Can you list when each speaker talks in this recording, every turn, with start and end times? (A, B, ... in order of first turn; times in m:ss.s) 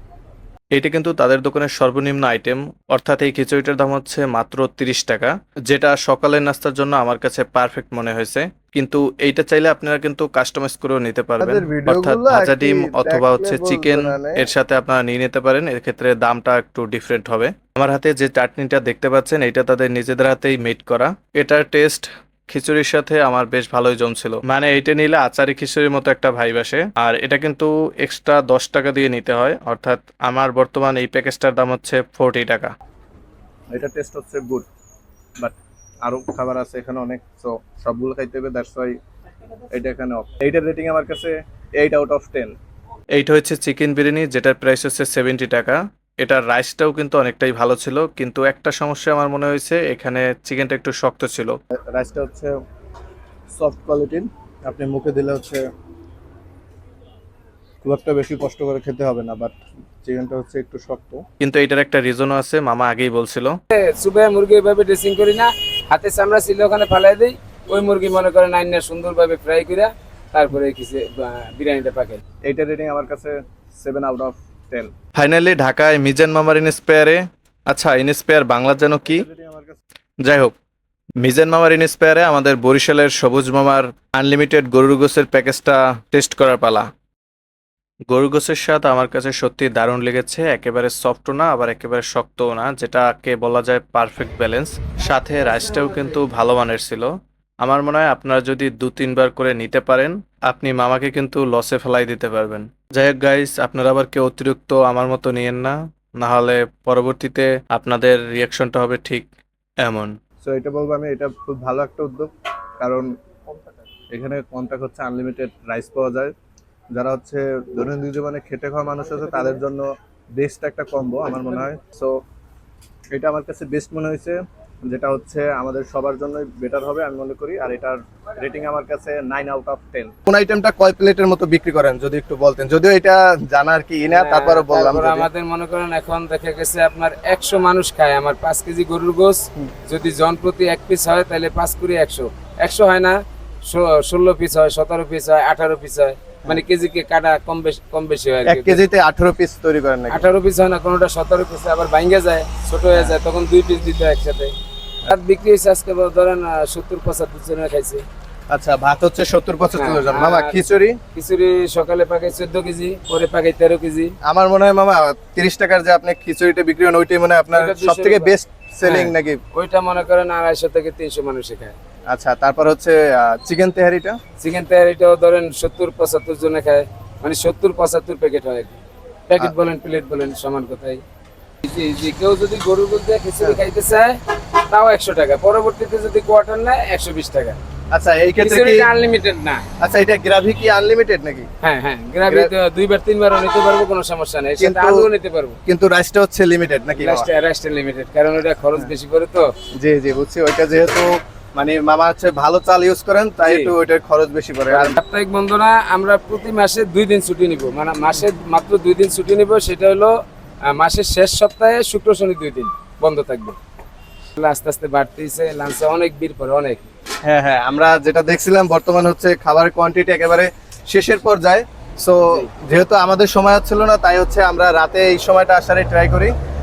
0:00.7-0:32.7 A
0:11.4-0:14.5 B
0:33.7-0:34.6 B
0:35.4-0:38.9 B
0:39.7-0:42.5 B
0:43.1-0:51.6 A
0:51.9-0:52.5 B
0:53.5-0:55.6 B
0:57.8-1:01.2 B
1:01.4-1:03.5 A
1:03.7-1:12.2 C
1:12.4-1:14.9 B
1:15.2-1:19.2 A
1:19.0-1:19.8 B
1:20.2-1:20.5 A
1:21.2-1:22.2 B
1:21.7-1:23.9 A
1:24.1-1:24.9 B
1:24.9-1:25.5 A
1:26.1-1:26.8 A
1:28.1-1:37.1 A
1:37.6-1:49.3 A
1:49.8-1:50.1 A
1:50.4-1:52.3 B
1:52.8-1:53.1 B
1:54.1-1:56.3 B
1:56.9-1:59.8 B
2:00.4-2:02.1 B
2:03.1-2:04.4 B
2:04.9-2:15.3 B
2:14.1-2:23.2 C
2:23.7-2:28.8 C
2:28.4-2:30.2 B
2:30.1-2:34.5 C
2:35.0-2:38.0 C
2:38.5-2:41.0 B
2:39.7-2:40.6 C
2:41.1-2:44.1 C
2:44.2-2:49.4 B
2:47.5-2:48.3 C
2:48.8-2:51.7 C
2:52.1-2:54.2 B
2:54.4-3:01.0 C
3:01.6-3:04.2 C
3:04.7-3:07.6 C
3:07.9-3:08.9 B
3:08.4-3:09.6 C
3:09.8-3:11.5 B
3:11.6-3:15.6 C
3:14.6-3:15.1 B
3:15.6-3:17.3 B
3:16.9-3:19.4 C
3:19.8-3:25.0 B
3:23.4-3:23.7 C
3:24.7-3:30.1 C
3:30.7-3:33.6 C
3:34.4-3:36.9 C
3:37.2-3:46.3 B